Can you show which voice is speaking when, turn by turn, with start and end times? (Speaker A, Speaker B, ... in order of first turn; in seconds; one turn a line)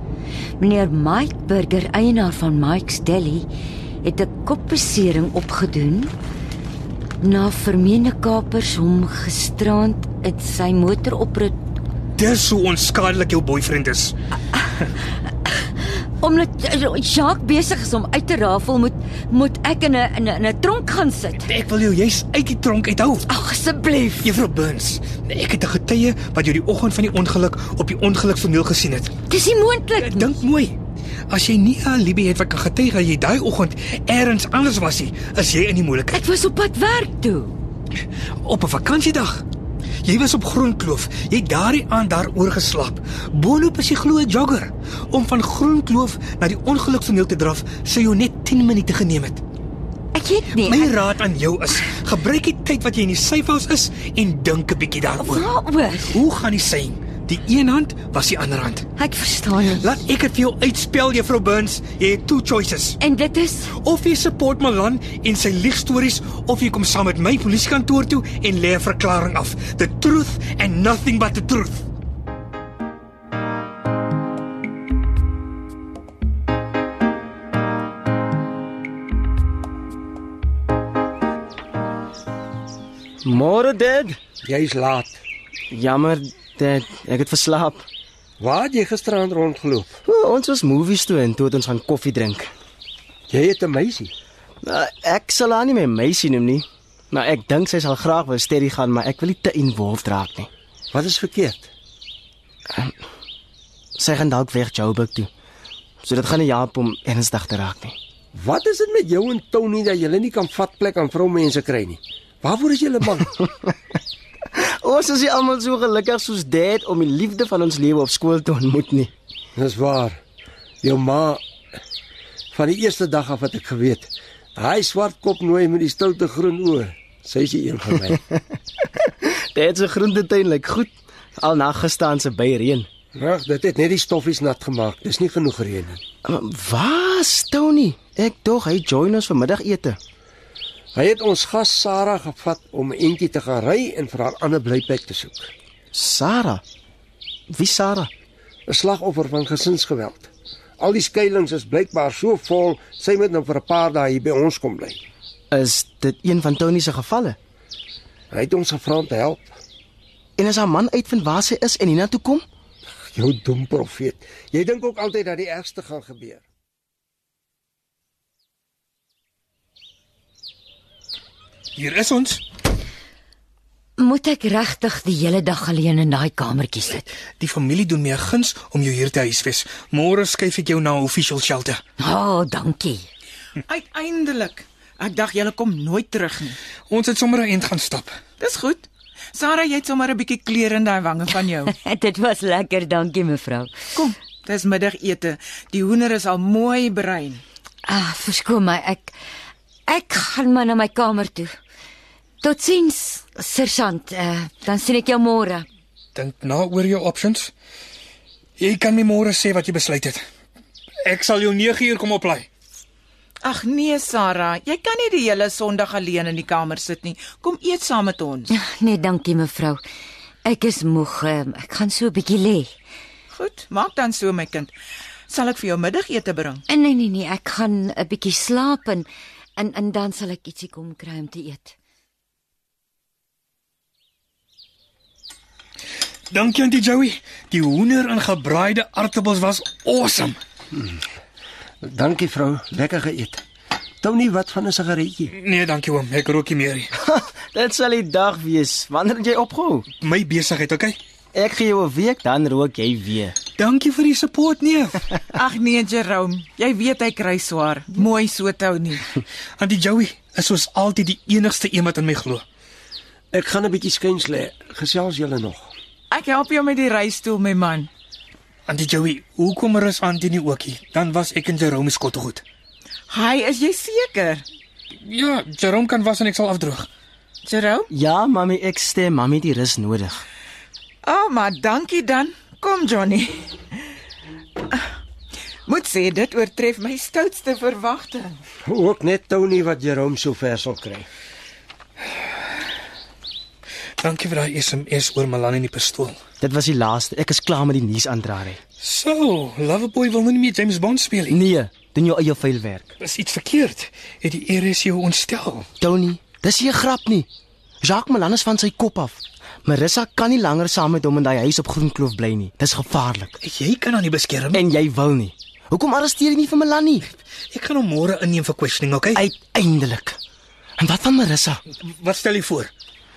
Speaker A: 0.6-3.5
Speaker A: 4.0-6.1
Speaker A: 7.2-11.6
Speaker B: 12.2-14.1
Speaker A: 14.5-21.5
Speaker B: 21.5-23.2
Speaker A: 23.3-24.3
Speaker B: 24.2-29.1
Speaker A: 29.3-30.3
Speaker B: 30.0-30.8
Speaker B: 31.3-36.2
Speaker A: 36.1-37.5
Speaker B: 38.4-39.4
Speaker B: 40.0-49.4
Speaker A: 50.1-51.0
Speaker B: 50.6-55.5
Speaker A: 55.2-56.2
Speaker B: 56.1-58.9
Speaker A: 59.0-59.9
Speaker B: 59.8-63.0
Speaker A: 63.0-63.7
Speaker B: 63.8-71.8
Speaker C: 83.2-84.2
Speaker D: 84.4-85.2
Speaker C: 85.7-87.9
Speaker D: 88.4-90.0
Speaker C: 90.1-92.5
Speaker D: 93.3-94.1
Speaker C: 94.6-100.5
Speaker D: 100.9-101.7
Speaker C: 104.0-105.3
Speaker C: 106.0-108.0
Speaker D: 108.3-113.3
Speaker C: 113.4-113.7
Speaker C: 114.5-119.1
Speaker D: 119.6-120.2
Speaker D: 120.8-121.4
Speaker D: 122.5-128.2
Speaker C: 129.1-132.9
Speaker D: 133.2-136.0
Speaker C: 136.2-140.0
Speaker D: 140.9-145.5
Speaker C: 145.9-146.6
Speaker C: 147.5-148.1
Speaker D: 148.7-155.0
Speaker C: 155.5-157.4
Speaker D: 158.3-159.5
Speaker C: 160.4-162.4
Speaker D: 163.1-166.4
Speaker B: 171.8-172.4
Speaker A: 174.0-177.1
Speaker B: 177.4-181.8
Speaker A: 182.0-183.1
Speaker E: 183.7-186.6
Speaker B: 186.9-188.2
Speaker E: 188.4-191.7
Speaker A: 191.7-193.8
Speaker E: 193.9-197.4
Speaker A: 197.9-199.2
Speaker A: 199.9-201.6
Speaker A: 202.4-205.7
Speaker B: 206.2-207.5
Speaker B: 208.6-210.2
Speaker B: 211.1-212.5
Speaker E: 213.4-218.5
Speaker A: 218.5-219.8
Speaker A: 220.4-222.7
Speaker E: 223.3-224.7
Speaker E: 225.3-226.6
Speaker A: 226.7-231.8
Speaker B: 236.3-240.4
Speaker D: 241.8-243.4
Speaker D: 244.0-245.3
Speaker B: 245.3-246.9
Speaker C: 246.9-249.9
Speaker B: 250.0-251.0
Speaker C: 251.3-253.4
Speaker B: 253.6-255.1
Speaker E: 255.3-259.0
Speaker B: 259.6-262.4
Speaker D: 263.3-265.7
Speaker E: 266.1-267.9
Speaker B: 268.7-272.4
Speaker E: 273.1-274.4
Speaker B: 275.1-276.9
Speaker E: 277.4-277.9
Speaker C: 277.9-280.2
Speaker E: 281.0-283.5
Speaker E: 285.7-288.4
Speaker D: 288.7-291.1
Speaker B: 294.0-296.2
Speaker C: 296.4-298.6
Speaker B: 298.8-301.4
Speaker C: 301.3-302.9
Speaker B: 303.0-305.7
Speaker C: 305.8-307.3
Speaker C: 307.8-313.4
Speaker B: 313.4-314.6
Speaker C: 314.5-317.1
Speaker B: 317.5-319.2
Speaker C: 319.1-320.2
Speaker C: 320.8-321.6
Speaker B: 321.8-322.7